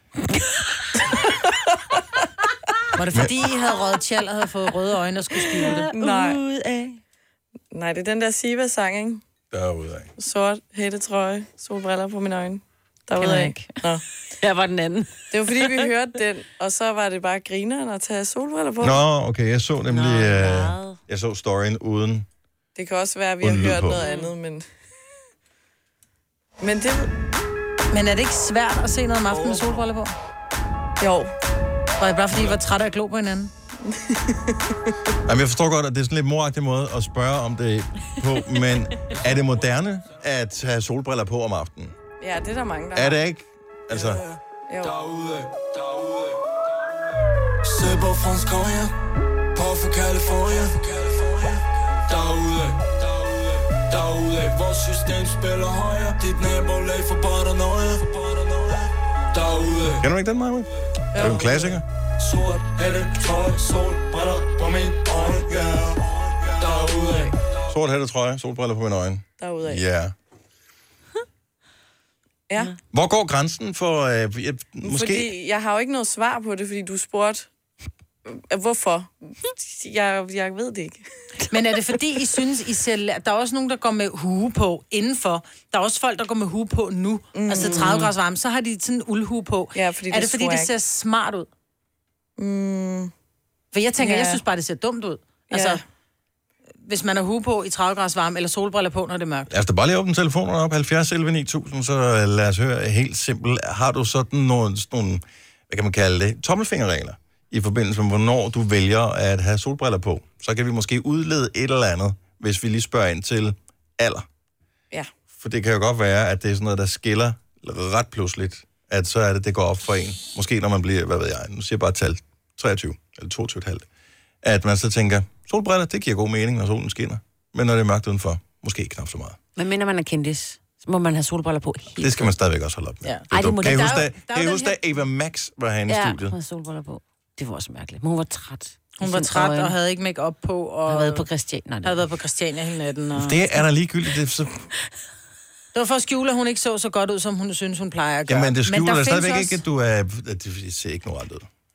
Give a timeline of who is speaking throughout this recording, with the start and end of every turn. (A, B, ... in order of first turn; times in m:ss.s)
0:01.1-0:02.0 A
0:03.0-0:05.9 B
0:05.6-0:07.0 C
0:05.9-0:06.4 A
0:07.7-0:09.2 A
0:09.5-0:10.1 D
0:10.2-0:14.0 A
0:13.2-0:13.8 C
0:14.4-0:15.1 C
0:15.3-0:19.0 A
0:18.8-0:22.3 D
0:19.9-0:21.0 C
0:22.8-0:24.7 A
0:23.4-0:24.0 D
0:24.0-0:24.3 C
0:26.6-0:27.1 A
0:27.9-0:30.1 B
0:31.0-0:31.3 A
0:32.0-0:33.5 B
0:33.8-0:34.9 A
0:35.3-0:42.0 D
0:42.2-0:43.2 A
0:43.0-0:44.2 D
0:44.2-0:45.0 A
0:47.8-0:48.9 E
0:49.6-0:50.8 E
0:52.2-0:52.4 E
0:54.0-0:58.6 E
0:59.4-0:59.9 E
1:00.0-1:01.8 D
1:01.1-1:01.8 A
1:02.3-1:05.8 E
1:06.6-1:07.3 A
1:07.7-1:10.1 D
1:09.4-1:09.8 A
1:12.9-1:15.3 D
1:14.8-1:17.5 A
1:18.3-1:21.0 A
1:21.5-1:31.5 B
1:27.4-1:28.0 A
1:27.6-1:28.0 C
1:29.7-1:30.7 A
1:32.4-1:33.1 A
1:33.7-1:35.8 B
1:34.0-1:34.4 A
1:35.5-1:35.8 A
1:36.8-1:39.5 B
1:39.5-1:54.2 D
1:55.4-2:03.9 D
2:04.4-2:09.4 D
2:09.6-2:12.3 C
2:12.0-2:16.4 D
2:13.0-2:13.3 B
2:13.3-2:14.2 C
2:13.8-2:14.7 B
2:15.9-2:19.8 C
2:19.0-2:21.3 B
2:20.9-2:22.0 C
2:21.8-2:23.5 B
2:23.2-2:24.6 D
2:25.7-2:29.6 B
2:28.3-2:31.5 D